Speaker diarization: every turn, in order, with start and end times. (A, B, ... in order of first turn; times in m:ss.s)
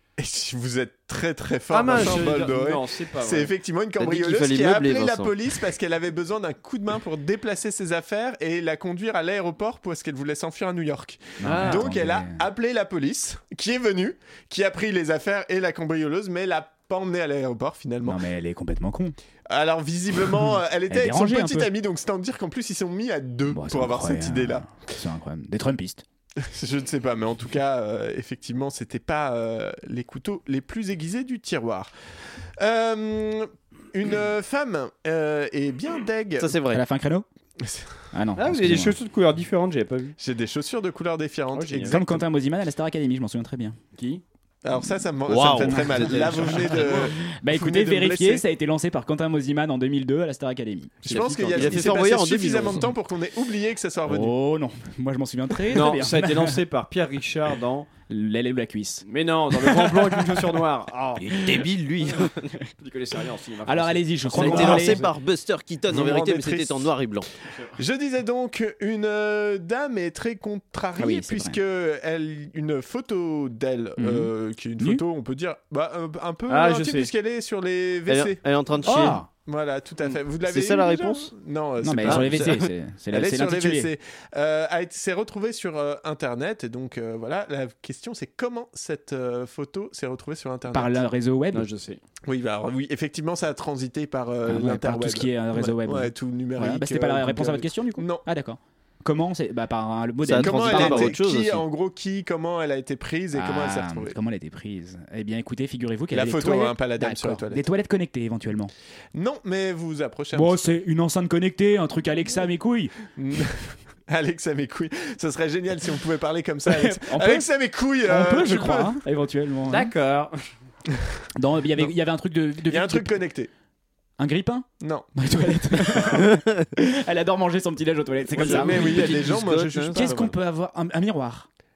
0:00.2-0:18.2 A
0:01.7-0:03.5 B
0:04.0-0:05.4 C
0:11.4-0:12.4 D
0:11.4-0:11.9 B
0:18.1-0:19.2 D
0:19.5-0:24.7 A
0:20.9-0:21.7 D
0:23.5-0:26.0 D
0:26.4-0:31.9 A
0:32.6-0:36.5 A
0:36.4-0:36.8 C
0:36.7-0:37.3 D
0:37.6-0:38.0 A
0:38.1-0:39.0 D
0:38.4-0:40.2 B
0:40.2-0:42.2 A
0:41.5-0:42.0 B
0:41.9-0:43.8 D
0:44.0-0:44.2 B
0:44.6-0:48.4 A
0:45.3-0:47.0 C
0:45.7-0:46.9 D
0:47.4-0:50.9 D
0:51.0-0:54.3 A
0:51.1-0:51.9 B
0:51.1-0:52.9 C
0:54.1-0:56.6 D
0:55.7-0:57.9 B
0:58.1-1:00.4 D
0:59.0-1:01.6 B
1:01.3-1:02.5 C
1:02.8-1:05.0 B
1:03.7-1:05.1 D
1:04.4-1:07.3 C
1:05.9-1:06.9 A
1:07.8-1:18.4 A
1:11.0-1:11.6 D
1:14.0-1:15.0 D
1:16.5-1:17.1 B
1:18.1-1:19.2 C
1:18.8-1:19.3 D
1:19.1-1:31.0 A
1:20.4-1:21.3 C
1:21.8-1:23.9 D
1:22.1-1:22.5 C
1:30.7-1:31.7 D
1:31.5-1:32.0 B
1:32.3-1:38.2 A
1:34.5-1:41.1 D
1:40.3-1:41.6 C
1:40.4-1:44.2 A
1:43.3-1:48.7 D
1:46.1-1:47.7 A
1:49.2-1:50.8 A
1:50.3-1:52.9 D
1:53.2-1:59.0 A
1:56.7-1:57.5 D
1:58.0-1:59.9 D
1:59.7-2:00.3 B
2:01.4-2:03.2 D
2:02.7-2:03.5 A
2:04.2-2:09.3 D
2:04.8-2:05.1 A
2:05.7-2:06.0 A
2:08.4-2:10.4 A
2:08.4-2:10.0 C
2:09.9-2:11.5 D